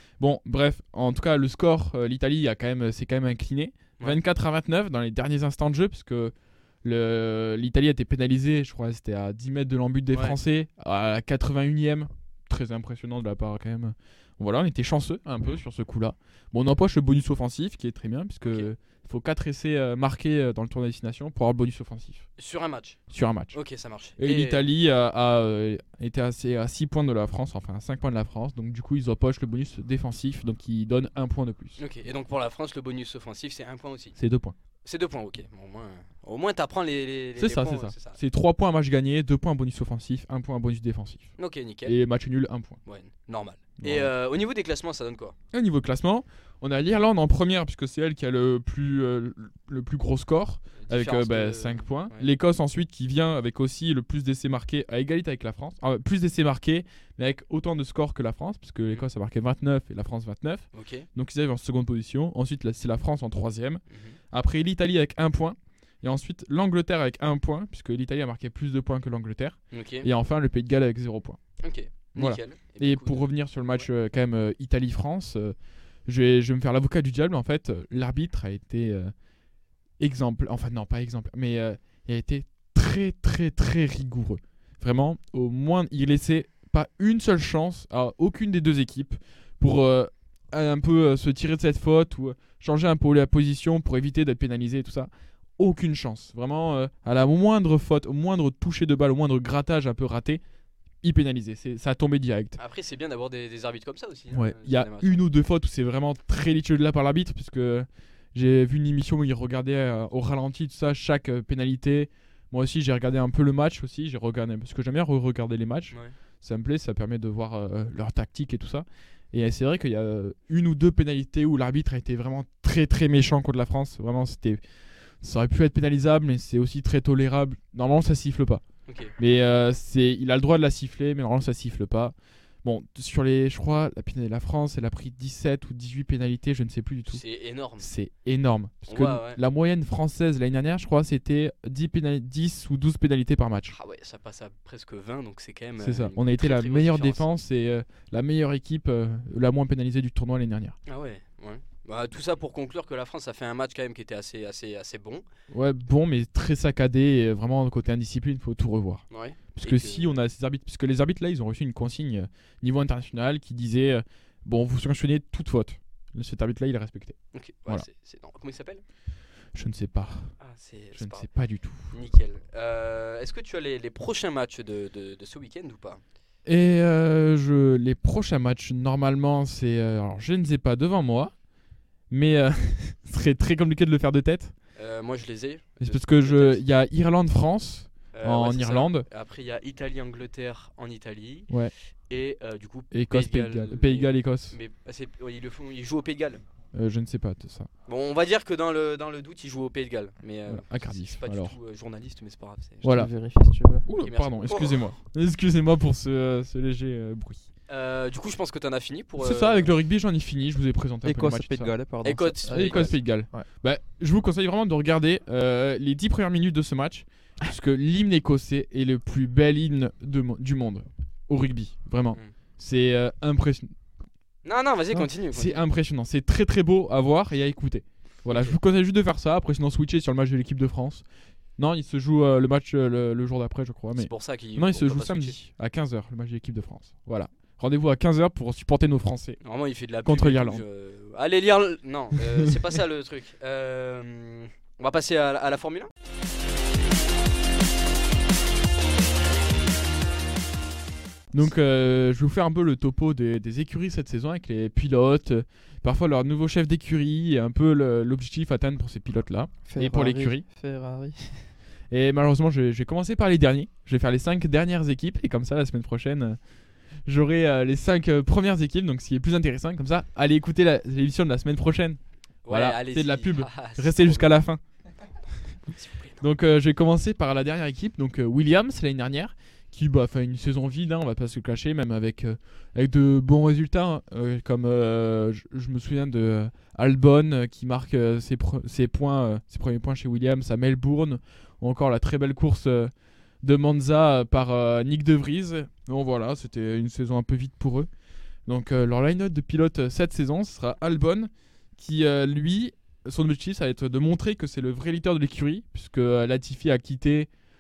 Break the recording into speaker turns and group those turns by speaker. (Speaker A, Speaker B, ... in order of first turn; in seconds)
Speaker A: 0.2-22.2, 23.1-23.6, 24.2-31.8, 34.1-34.5, 37.4-41.3, 41.9-42.8, 43.8-44.1, 45.5-71.4, 72.1-75.5, 76.0-79.1, 80.0-100.4, 101.0-102.6, 104.3-124.6, 125.2-128.6, 129.2-137.2, 137.8-143.8, 145.8-150.8, 155.5-159.0, 159.6-167.2, 169.5-170.3, 170.9-171.9, 176.4-181.3, 182.1-184.5, 185.8-189.1, 192.9-194.6, 196.7-197.7, 200.5-201.6, 202.8-203.1, 203.8-207.4, 209.2-211.7, 212.5-223.7, 224.9-231.0, 231.6-239.4, 240.0-240.6, 251.3-260.4, 261.9-266.4, 267.1-272.0, 272.5-274.6, 276.2-292.9, 293.4-297.9, 298.5-307.3
Speaker B: 10.1-10.4, 18.4-18.7, 22.4-23.0, 23.5-24.6, 31.8-34.2, 34.8-38.2, 41.4-42.0, 42.9-45.3, 50.8-52.3, 60.7-61.1, 63.9-64.2, 69.7-70.1, 71.6-73.3, 102.6-105.2, 128.9-129.1, 137.1-137.9, 138.8-139.4, 143.7-147.2, 150.9-155.2, 159.1-160.2, 167.3-168.8, 170.4-171.3, 171.9-176.0, 184.8-186.6, 188.1-191.5, 192.1-196.4, 197.9-202.9, 204.0-204.8, 207.7-209.7, 212.0-213.0, 224.4-225.6, 228.3-228.6, 233.9-235.4, 239.4-245.9, 272.4-274.4, 275.8-276.2
Speaker C: 202.8-203.9, 211.0-213.4, 259.7-261.5